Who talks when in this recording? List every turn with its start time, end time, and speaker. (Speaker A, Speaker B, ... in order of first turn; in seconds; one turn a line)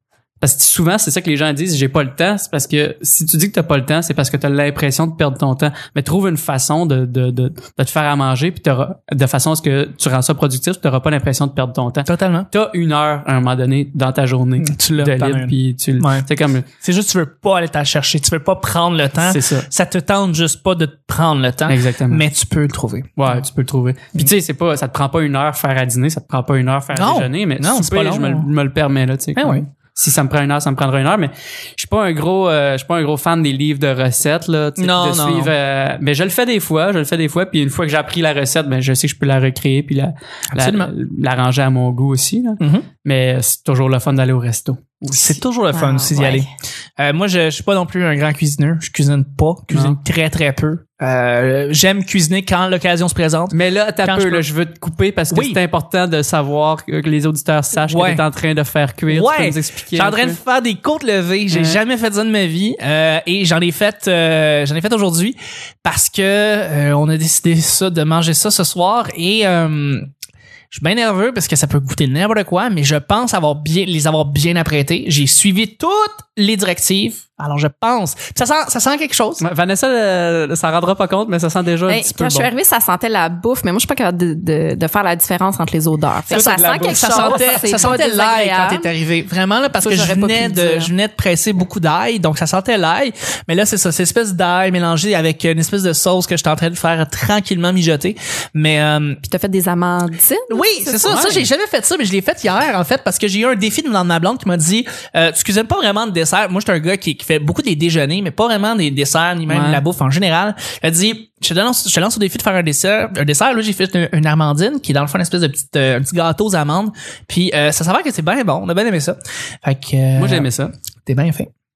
Speaker A: 0.4-16.7
Speaker B: 12.1-12.5
Speaker B: 14.6-16.3
Speaker B: 16.8-23.4
Speaker A: 19.2-19.7
Speaker A: 21.7-22.2
Speaker A: 23.1-45.4
Speaker B: 26.9-28.5
Speaker B: 29.4-29.6
Speaker B: 34.8-35.5
Speaker B: 40.5-40.9
Speaker B: 42.6-42.9
Speaker B: 45.1-46.5
Speaker C: 45.7-46.5
Speaker B: 47.0-54.4
Speaker A: 49.7-50.0
Speaker A: 53.5-60.4
Speaker B: 55.3-55.6
Speaker B: 57.9-58.2
Speaker B: 59.1-70.1
Speaker A: 61.5-61.8
Speaker B: 70.7-79.4
Speaker A: 79.4-82.5
Speaker C: 81.9-88.9
Speaker A: 86.3-88.0
Speaker B: 86.3-99.2
Speaker C: 89.8-90.9
Speaker C: 99.2-101.3
Speaker B: 100.5-120.5
Speaker A: 101.0-101.5
Speaker A: 109.5-109.8
Speaker A: 120.2-120.7
Speaker B: 121.0-121.5